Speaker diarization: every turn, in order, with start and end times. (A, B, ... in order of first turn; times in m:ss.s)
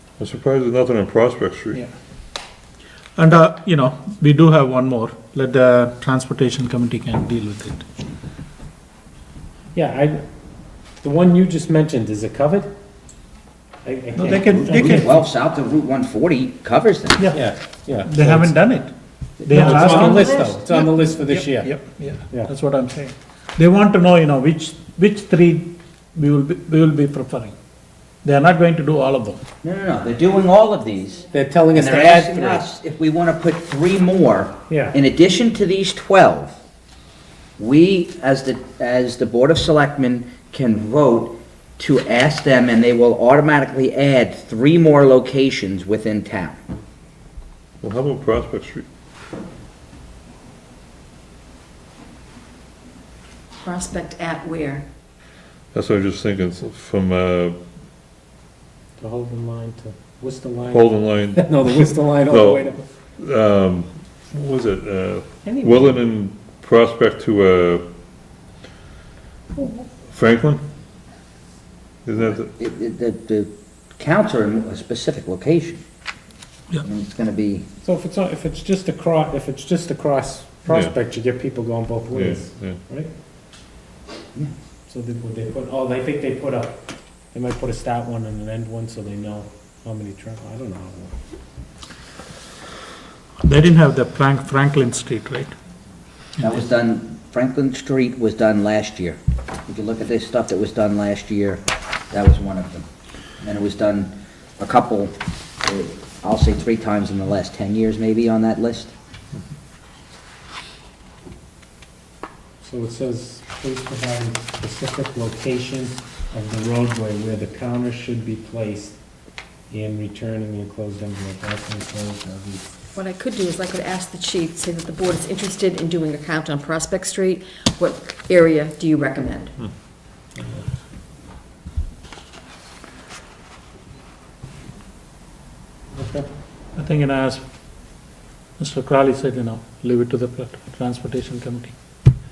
0:00.2-0:01.8 A
0:03.2-0:07.8 B
0:09.7-0:10.2 C
0:11.0-0:12.7 C
0:13.8-0:15.1 C
0:14.2-0:15.1 B
0:14.3-0:17.2 D
0:17.2-0:17.4 B
0:17.3-0:18.6 C
0:18.0-0:27.5 B
0:19.4-0:21.7 C
0:28.2-0:29.4 B
0:29.6-0:36.6 D
0:31.3-0:32.6 C
0:34.7-0:35.0 C
0:37.6-0:46.6 D
0:47.8-0:48.8 A
0:53.6-0:54.8 E
0:55.7-0:57.6 A
0:59.0-1:02.8 C
1:00.7-1:07.8 A
1:05.4-1:06.0 C
1:10.1-1:10.6 A
1:12.0-1:12.5 A
1:12.2-1:15.8 D
1:16.8-1:17.6 D
1:17.8-1:23.1 C
1:20.7-1:20.9 A
1:22.1-1:22.8 A
1:24.9-1:31.1 C
1:33.4-1:35.5 B
1:36.4-1:42.8 D
1:43.4-1:48.9 D
1:52.6-1:59.0 C
1:59.7-2:02.7 C
2:02.9-2:09.5 E
2:10.3-2:10.6 C
2:15.9-2:16.3 C
2:16.7-2:18.0 B
2:18.6-2:21.7 B